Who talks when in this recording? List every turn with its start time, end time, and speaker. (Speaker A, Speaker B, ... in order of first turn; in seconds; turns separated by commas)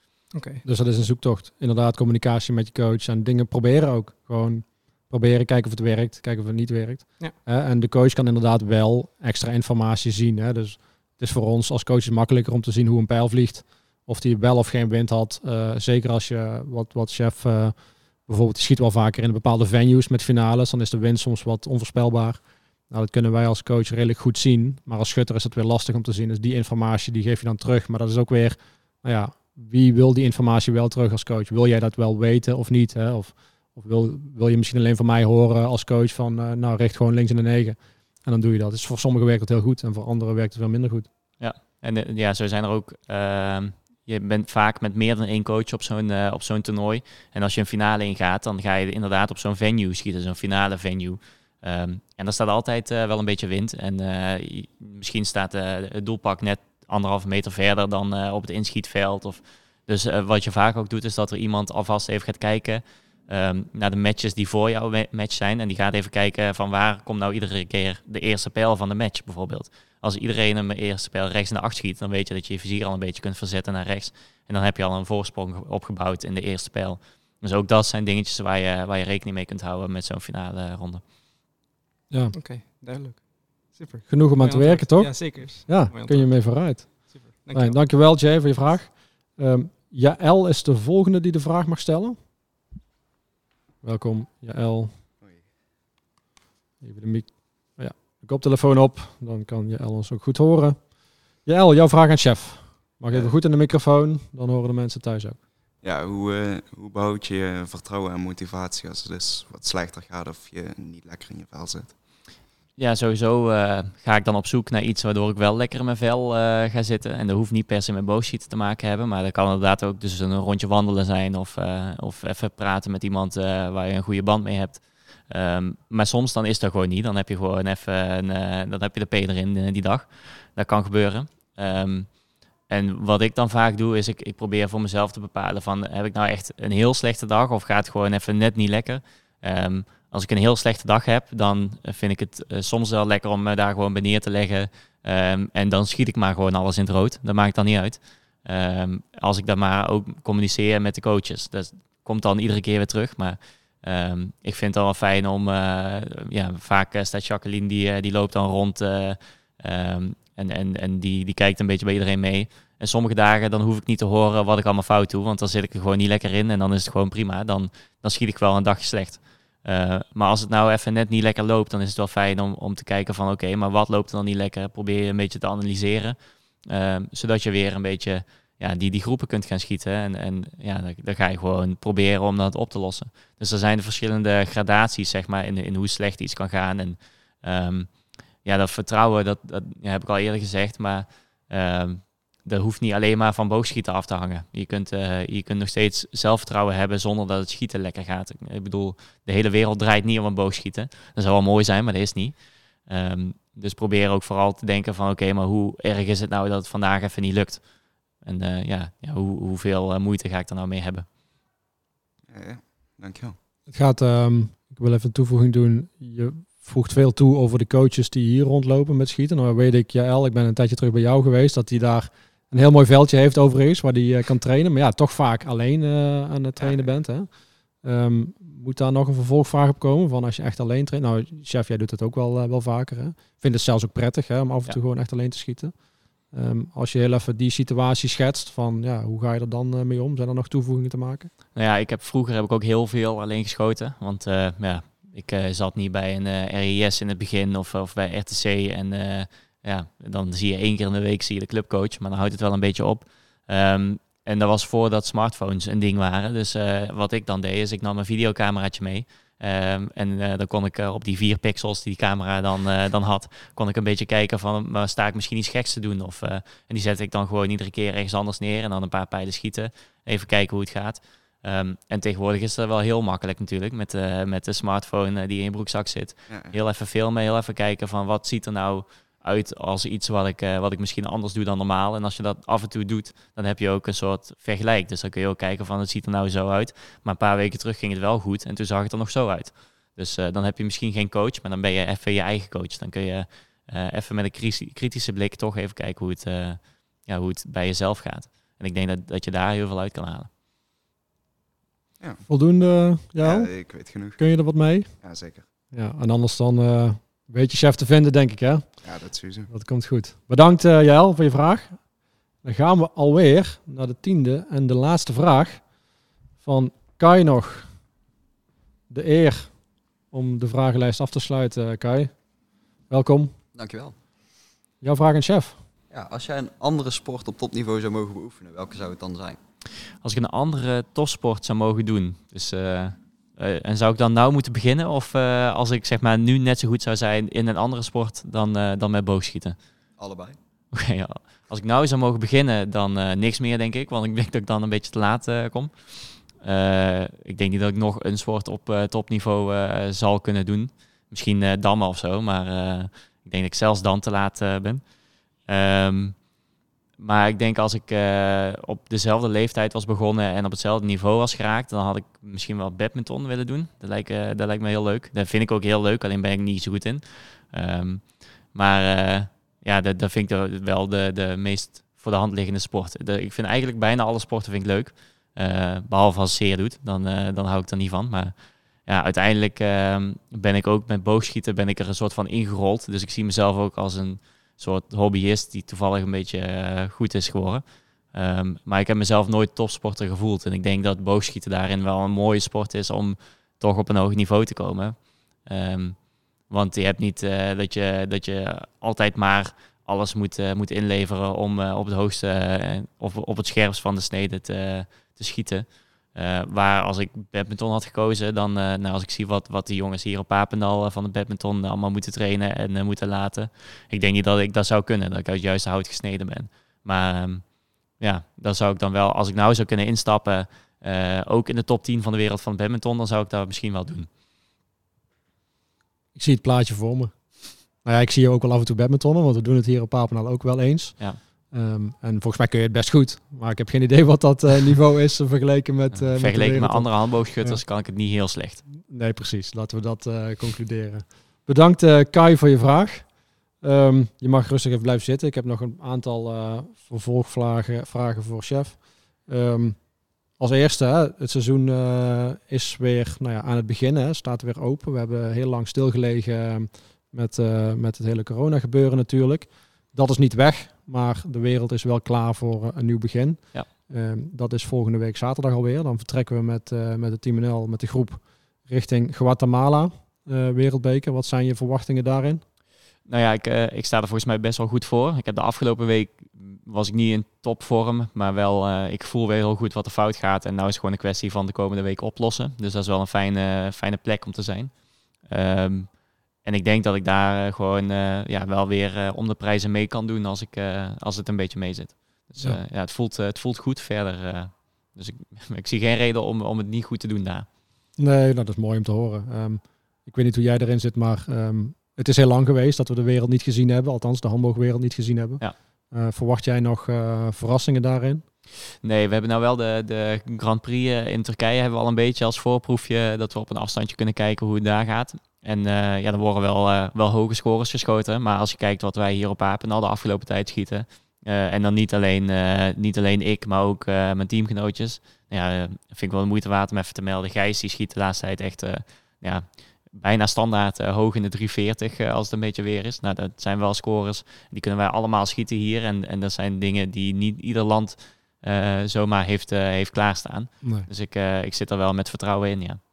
Speaker A: 0.3-0.6, Speaker B: 0.6-41.1, Speaker C: 41.4-81.0, Speaker B: 82.1-82.3, Speaker A: 82.3-87.8, Speaker B: 84.1-92.2, Speaker B: 93.8-94.9, Speaker B: 96.8-105.4, Speaker D: 105.8-112.0, Speaker C: 112.8-132.1, Speaker C: 132.7-207.6, Speaker C: 208.2-211.1, Speaker D: 212.3-213.4, Speaker B: 213.7-241.3, Speaker C: 241.5-300.3, Speaker D: 276.3-276.5, Speaker D: 302.0-305.5, Speaker B: 302.2-305.0, Speaker B: 305.7-315.8, Speaker D: 308.8-309.5, Speaker B: 316.4-317.8, Speaker B: 318.9-322.3, Speaker B: 322.8-323.3, Speaker E: 323.5-324.0, Speaker B: 324.8-325.6, Speaker E: 325.9-329.4, Speaker C: 330.0-339.6, Speaker E: 340.0-340.4, Speaker C: 340.7-356.2, Speaker C: 357.0-424.1, Speaker B: 426.1-437.6, Speaker C: 435.9-438.6, Speaker B: 438.7-472.4, Speaker C: 473.1-497.5, Speaker B: 498.0-508.2, Speaker C: 508.8-542.8, Speaker B: 540.6-540.9